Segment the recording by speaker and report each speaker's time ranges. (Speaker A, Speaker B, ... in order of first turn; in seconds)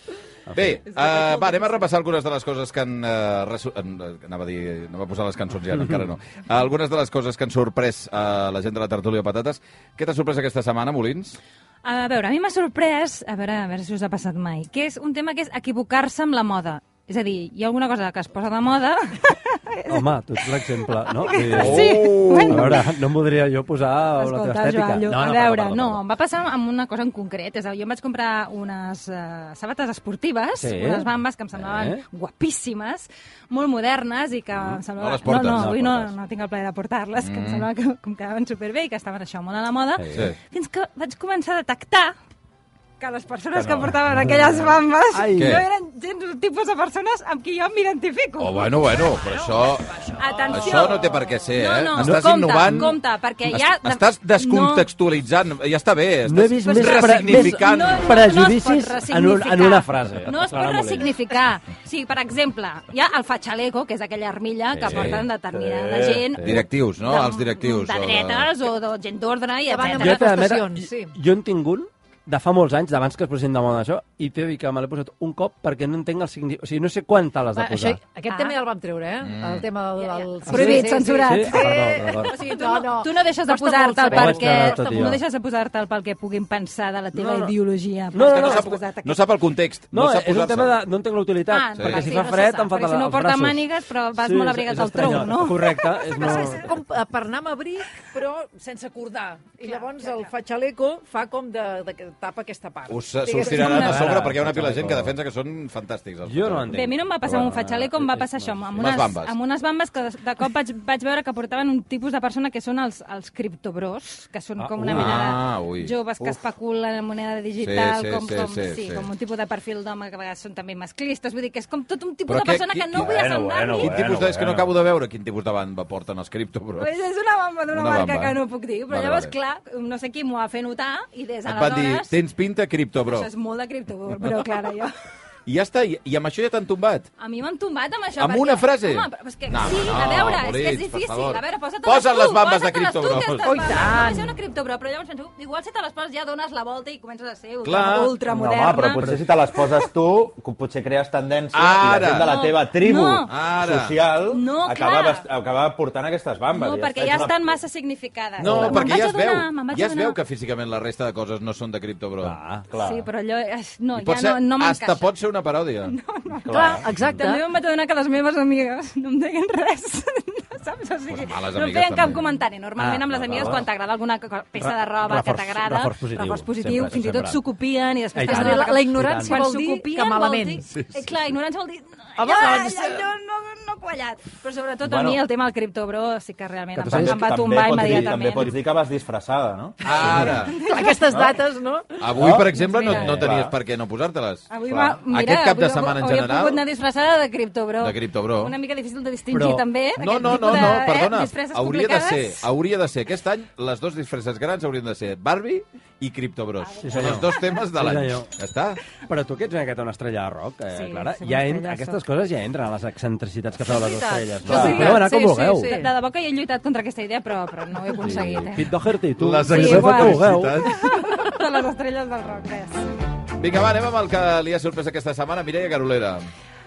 Speaker A: 0.5-0.8, 19.9-26.0, 30.6-32.0, 35.5-36.1, 40.0-40.3, 45.1-45.6, 52.0-52.9, 56.3-61.1, 64.7-65.2, 70.0-78.0, 80.5-82.3, 84.1-85.2, 87.1-87.5, 88.1-88.6, 89.9-93.6, 94.2-96.7, 103.5-105.1, 106.2-109.0, 114.6-115.3, 162.2-162.6, 172.8-173.6, 174.6-177.4, 178.1-179.4, 186.8-187.3, 199.3-199.6, 206.8-208.3, 209.1-215.7, 218.0-220.6
Speaker B: 0.5-11.4, 21.4-22.9, 34.6-35.9, 37.2-37.7, 40.1-40.4, 45.4-45.6, 48.4-49.9, 50.5-58.2, 64.9-65.2, 66.4-68.5, 79.2-79.7, 88.2-90.8, 91.8-92.1, 102.9-107.6, 108.8-109.3, 114.8-116.4, 117.6-119.1, 122.3-126.9, 127.7-128.4, 128.9-129.3, 131.5-133.3, 135.5-137.1, 138.2-143.6, 147.6-148.2, 151.5-152.3, 153.3-154.0, 158.4-162.4, 163.9-165.9, 171.1-172.2, 173.2-173.6, 180.7-181.1, 189.8-190.6, 192.0-196.6, 197.8-198.5, 200.0-208.8, 219.2-221.1, 223.4-226.3
Speaker C: 11.8-20.1, 21.2-22.9, 24.2-42.1, 43.0-48.7, 50.2-54.9, 56.7-70.4, 78.3-78.6, 80.0-89.2, 91.5-95.8, 99.7-100.1, 103.5-103.9, 106.7-124.0, 126.8-132.1, 133.0-134.9, 137.2-149.8, 152.1-153.3, 154.3-155.2, 156.5-160.2, 162.8-165.1, 165.8-188.6, 189.9-191.1, 192.8-193.2, 194.5-202.4, 210.7-212.0, 214.5-218.7, 219.5-222.8
Speaker D: 49.2-51.4, 69.7-71.1, 77.6-85.1, 92.1-92.4, 96.2-104.0, 143.4-144.4, 166.5-167.4, 178.2-180.6, 182.2-183.0, 190.5-192.1, 213.6-215.9
Speaker E: 65.5-66.2, 122.9-124.7, 148.2-157.5, 158.4-158.9, 162.7-163.1, 166.4-166.9, 184.8-185.2, 186.9-190.3, 191.1-191.4, 192.1-193.5